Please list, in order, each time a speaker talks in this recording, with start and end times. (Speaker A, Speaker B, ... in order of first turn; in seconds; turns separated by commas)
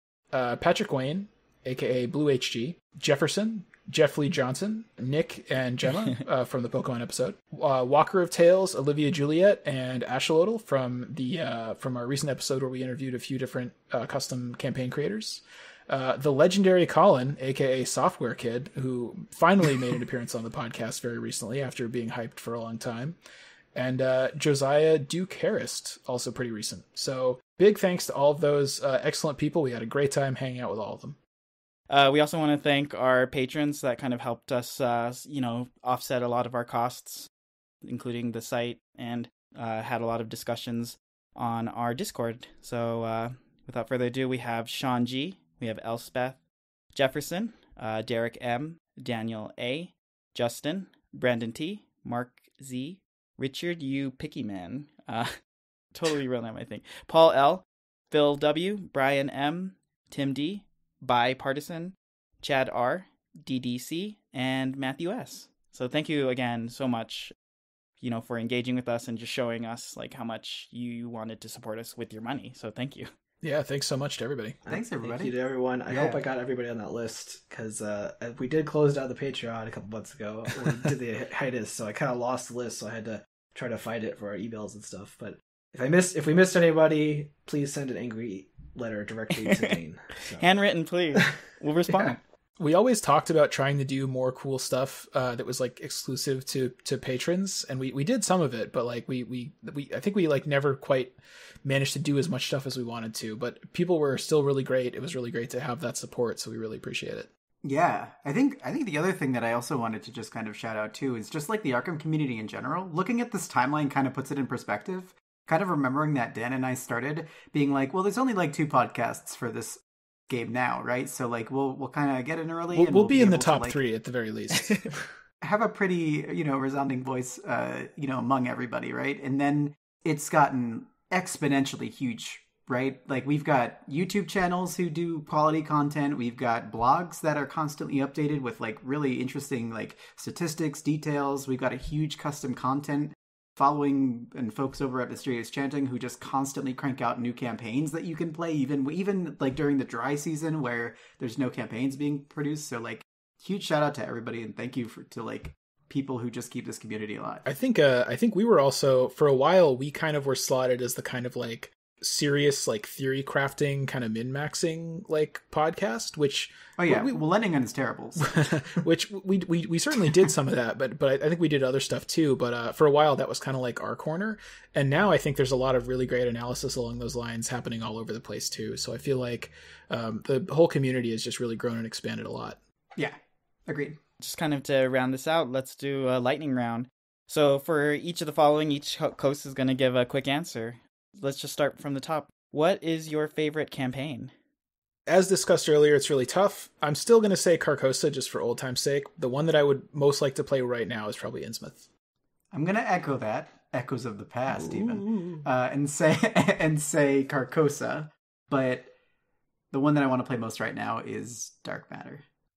Speaker A: 0.3-23.2, Speaker A: 23.7-31.2, Speaker B: 31.9-37.3, Speaker B: 37.9-46.4, Speaker B: 46.9-55.3, Speaker B: 55.9-67.3, Speaker B: 68.0-73.1, Speaker A: 73.4-74.6, Speaker C: 74.7-90.5, Speaker D: 74.7-76.2, Speaker B: 90.4-92.2, Speaker A: 92.6-107.3, Speaker D: 107.6-123.8, Speaker A: 122.7-124.9, Speaker D: 125.4-157.4, Speaker A: 157.4-167.2, Speaker D: 166.8-168.3, Speaker A: 168.2-182.6, Speaker D: 183.0-184.0, Speaker B: 184.2-194.3, Speaker A: 195.1-201.9, Speaker D: 202.5-208.9, Speaker D: 209.7-212.2